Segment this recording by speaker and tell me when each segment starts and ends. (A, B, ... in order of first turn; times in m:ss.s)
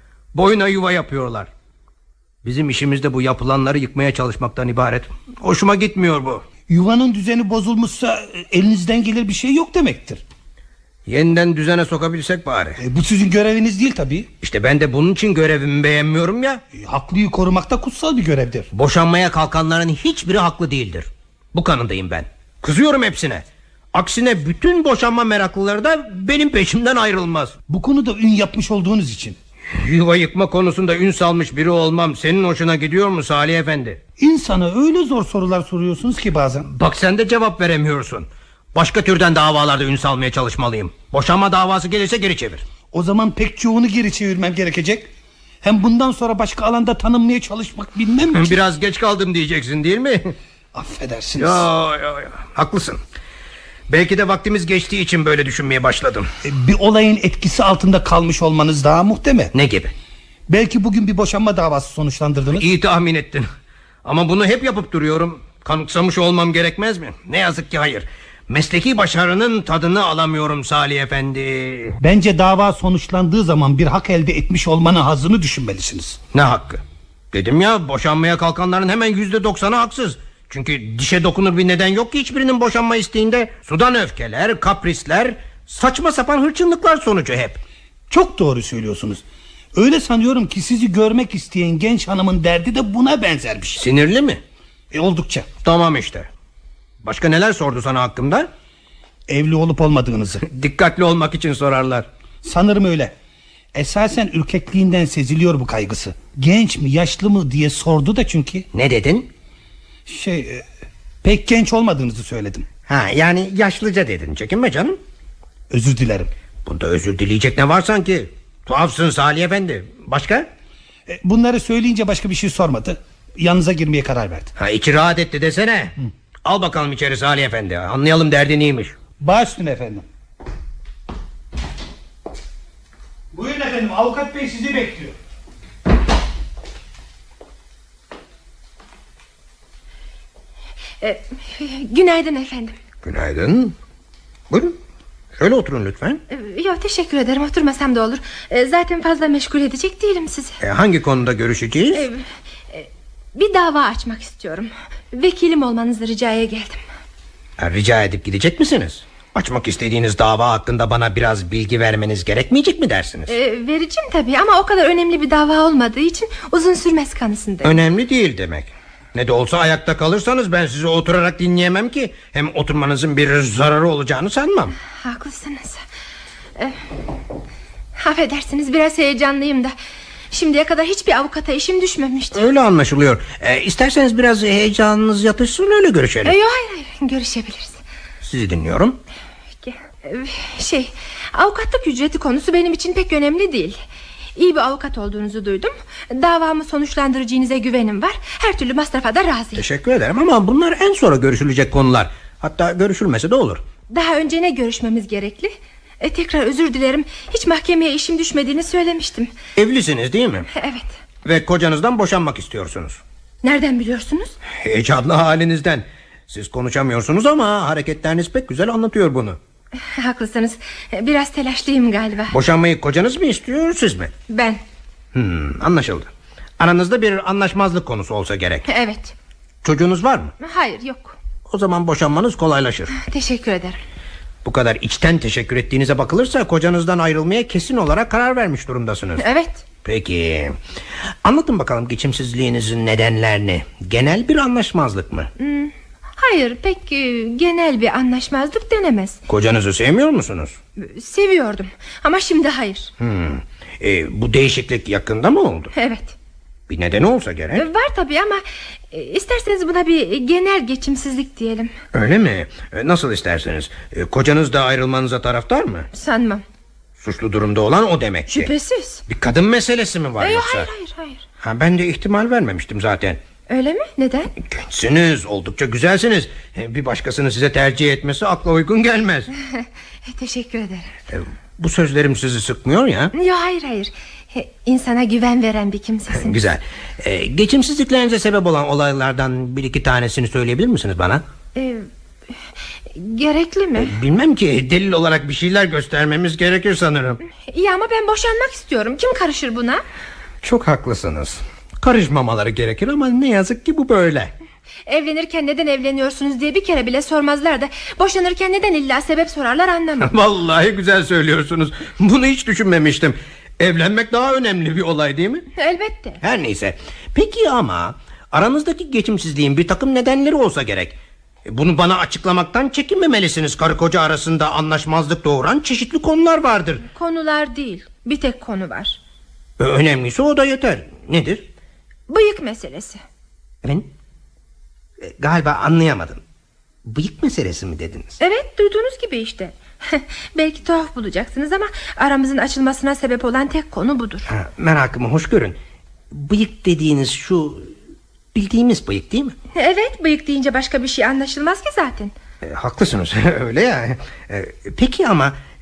0:00.3-0:01.5 A
0:02.4-0:06.4 A
0:06.7-0:10.2 B
0:11.1-0:12.8 A
0:12.8-0:14.3 B
0:14.4-0:16.6 A
0:16.8-0:18.7 B
0:18.7-0:27.6 A
0:27.7-0:29.4 B
0:29.8-0:34.0 A
0:34.2-0:36.7 B
0:36.7-0:42.6 A
0:42.9-0:45.1 B
0:45.6-0:48.6 B
0:48.3-0:50.4 A
0:50.7-0:51.7 B
0:51.4-0:53.0 A
0:53.9-0:56.3 A
0:56.4-0:59.5 B
0:59.5-0:59.9 A
1:00.5-1:02.6 B
1:02.5-1:03.5 A
1:04.0-1:12.0 A
1:12.0-1:16.2 B
1:16.3-1:16.8 A
1:17.3-1:27.6 A
1:28.1-1:29.2 B
1:29.8-1:33.8 B
1:33.8-1:34.4 A
1:34.9-1:35.5 B
1:35.6-1:36.3 A
1:37.0-1:38.5 A
1:39.3-1:40.4 B
1:40.4-1:42.1 A
1:42.4-1:43.1 B
1:43.7-1:48.7 B
1:48.7-1:49.3 A
1:50.1-1:50.6 B
1:51.2-1:52.7 B
1:52.9-1:55.0 A
1:55.7-1:56.3 B
1:56.7-2:00.5 A
2:01.1-2:04.5 B
2:04.6-2:09.0 A
2:09.2-2:10.0 B
2:13.3-2:15.2 B
2:21.0-2:22.8 C
2:23.0-2:23.8 A
2:24.5-2:24.8 A
2:25.4-2:26.2 A
2:26.3-2:30.6 C
2:30.6-2:32.0 A
2:31.9-2:36.8 C
2:37.6-2:43.4 A
2:43.3-2:47.8 C
2:47.6-2:54.8 A
2:55.0-2:55.8 C
2:58.0-2:59.7 C
3:00.3-3:02.4 C
3:02.3-3:06.4 A
3:06.2-3:07.8 C
3:08.2-3:09.0 A
3:09.6-3:13.8 C
3:14.4-3:19.6 C
3:19.6-3:23.6 A
3:23.9-3:29.3 C
3:29.6-3:30.5 A
3:30.6-3:30.9 C
3:31.2-3:33.0 A
3:33.4-3:34.3 C
3:34.6-3:39.4 A
3:39.8-3:42.3 C
3:42.3-3:44.1 A
3:44.3-3:44.6 C
3:45.1-3:48.7 A
3:48.7-3:49.1 C
3:49.6-3:50.3 A
3:50.4-3:51.2 C
3:51.5-3:52.9 A
3:53.0-3:53.8 C
3:54.4-3:59.2 A
3:59.2-3:59.6 C
3:59.8-4:00.6 A
4:01.2-4:05.3 A
4:05.4-4:09.2 C
4:09.3-4:10.6 A
4:10.8-4:12.9 C
4:13.0-4:15.7 A
4:15.8-4:16.2 C
4:16.7-4:17.7 A
4:17.6-4:21.7 C
4:21.9-4:25.9 A
4:25.9-4:26.4 C
4:27.0-4:28.5 A
4:28.3-4:29.0 C
4:29.1-4:30.7 A
4:30.2-4:31.2 C
4:31.4-4:33.2 A
4:33.5-4:34.3 C
4:34.4-4:39.3 A
4:40.0-4:40.9 C
4:41.1-4:43.1 A
4:43.1-4:46.3 C
4:46.2-4:51.2 A
4:51.6-4:51.9 C
4:52.9-4:53.9 C
4:53.8-4:57.2 A
4:57.5-4:59.8 C
5:00.4-5:04.3 A
5:04.9-5:10.1 C
5:10.0-5:15.5 A
5:15.6-5:16.2 C
5:16.2-5:26.8 A
5:26.9-5:29.0 C
5:29.6-5:31.5 A
5:32.1-5:33.0 C
5:33.6-5:33.9 A
5:35.0-5:36.2 A
5:36.8-5:38.2 A
5:38.2-5:44.3 C
5:44.3-5:45.6 A
5:46.1-5:47.7 A
5:48.3-5:49.4 A
5:49.6-5:52.1 C
5:52.4-5:55.4 A